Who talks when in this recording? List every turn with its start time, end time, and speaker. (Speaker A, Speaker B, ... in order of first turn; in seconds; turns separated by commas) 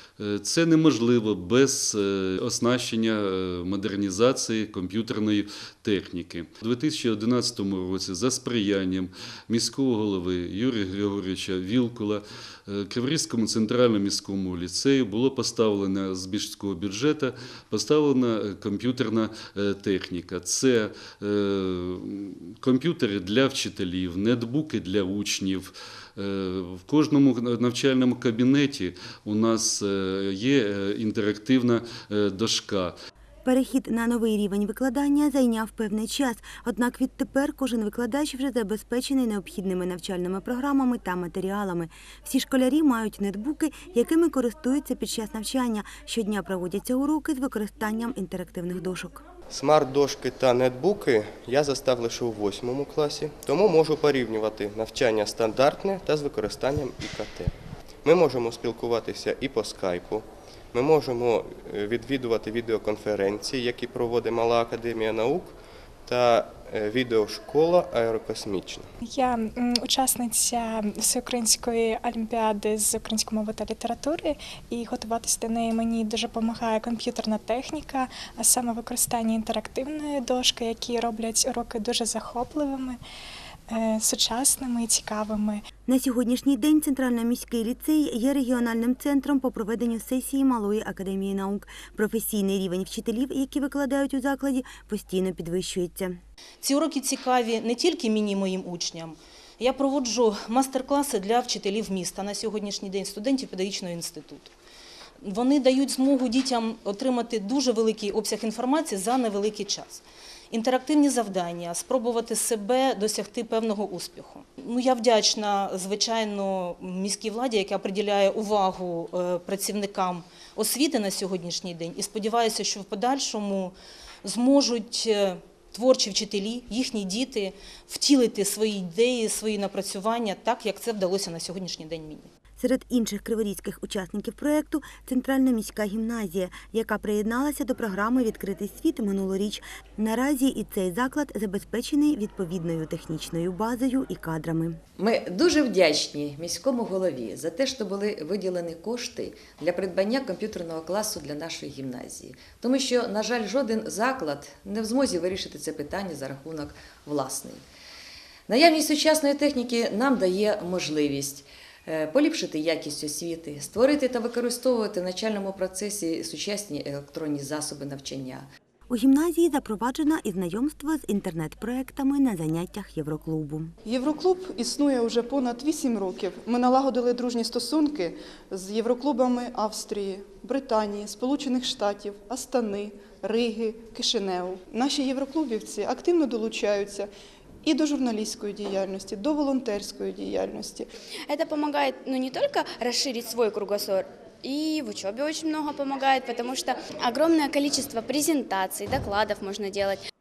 Speaker A: 0.2-32.9, Speaker B: 33.4-49.2, Speaker C: 49.5-57.5, Speaker C: 58.0-68.9, Speaker D: 69.0-83.0, Speaker D: 83.7-85.6, Speaker B: 85.9-96.2, Speaker E: 96.6-104.5, Speaker E: 105.2-132.3, Speaker B: 132.6-144.8, Speaker F: 145.0-157.6, Speaker F: 158.5-168.5, Speaker B: 168.9-173.7, Speaker G: 173.8-187.1, Speaker G: 187.6-190.9, Speaker H: 191.3-200.0